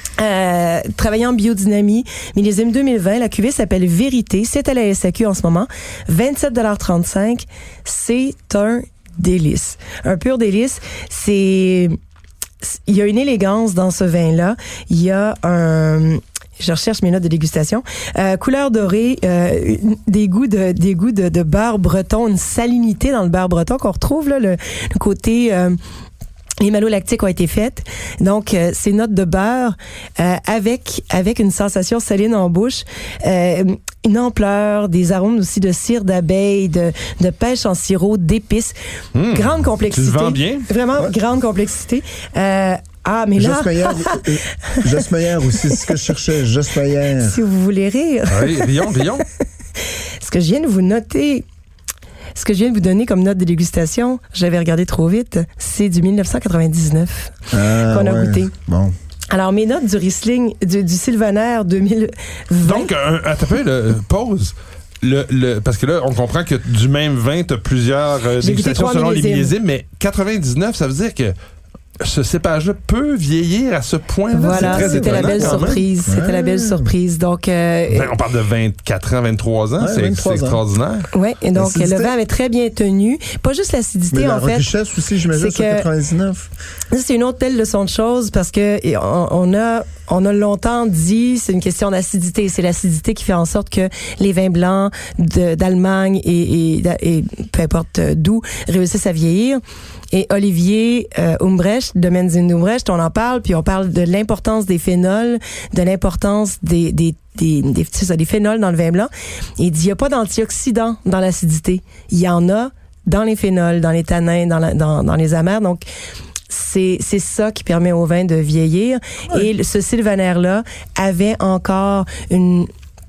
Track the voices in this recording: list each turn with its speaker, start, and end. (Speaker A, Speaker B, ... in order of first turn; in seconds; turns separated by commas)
Speaker A: 0.2-11.9, Speaker A: 12.6-25.8, Speaker A: 26.6-38.7, Speaker B: 39.1-40.7, Speaker A: 39.3-45.0, Speaker C: 43.4-47.4, Speaker A: 45.6-45.9, Speaker A: 47.1-48.9, Speaker B: 48.3-49.3, Speaker A: 50.2-51.5, Speaker A: 52.3-58.5, Speaker C: 57.5-58.9, Speaker A: 59.3-62.9, Speaker B: 62.6-71.3, Speaker A: 68.4-69.5, Speaker B: 72.0-75.8, Speaker A: 74.3-78.1, Speaker C: 74.5-76.9, Speaker B: 77.9-81.1, Speaker C: 79.8-80.6, Speaker A: 81.1-84.7, Speaker C: 81.5-82.1, Speaker C: 84.1-86.5, Speaker A: 85.3-85.9, Speaker A: 86.9-115.8, Speaker A: 116.5-122.7